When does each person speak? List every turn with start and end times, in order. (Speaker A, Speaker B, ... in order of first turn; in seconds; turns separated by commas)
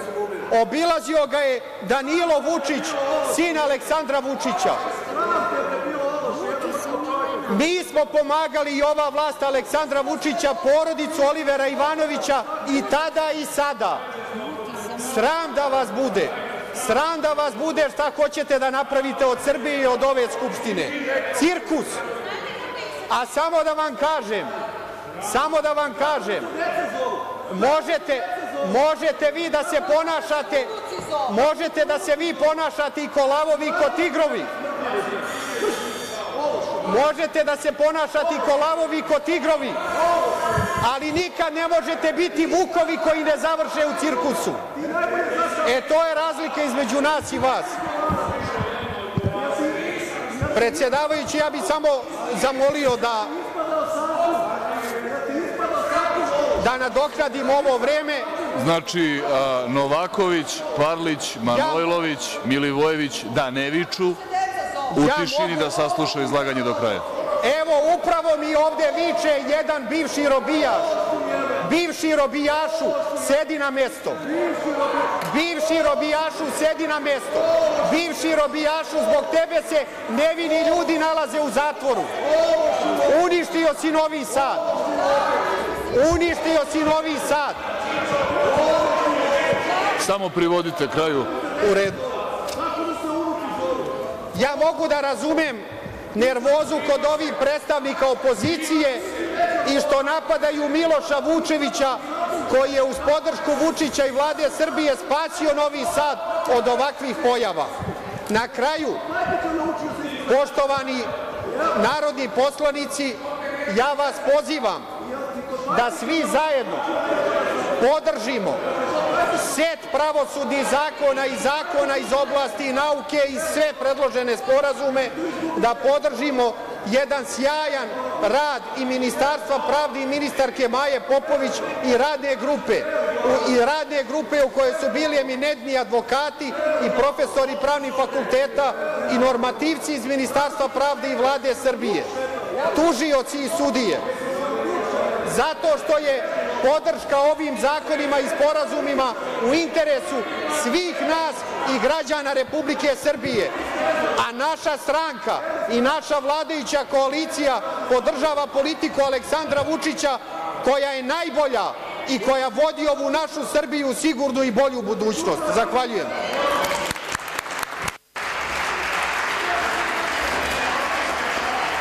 Speaker A: 0.5-4.8, Speaker A: 7.5-14.0, Speaker A: 14.9-22.0, Speaker A: 23.1-24.5, Speaker A: 25.2-26.5, Speaker A: 27.5-30.7, Speaker A: 31.2-34.5, Speaker A: 36.8-39.8, Speaker A: 40.8-44.6, Speaker A: 45.6-47.8, Speaker A: 50.5-53.4, Speaker A: 56.6-58.3, Speaker B: 58.5-64.2, Speaker A: 61.5-61.9, Speaker B: 64.9-67.0, Speaker A: 64.9-65.7, Speaker A: 67.4-70.9, Speaker A: 71.6-74.2, Speaker A: 75.2-82.1, Speaker A: 83.0-84.7, Speaker A: 85.9-87.6, Speaker B: 90.0-91.3, Speaker A: 91.6-92.0, Speaker A: 94.3-95.6, Speaker A: 96.1-99.0, Speaker A: 99.6-107.7, Speaker A: 108.3-109.0, Speaker A: 110.2-111.1, Speaker A: 111.7-114.8, Speaker A: 115.7-116.9, Speaker A: 117.8-118.6, Speaker A: 119.3-142.1, Speaker A: 142.7-144.1, Speaker A: 145.2-153.5, Speaker A: 154.2-166.1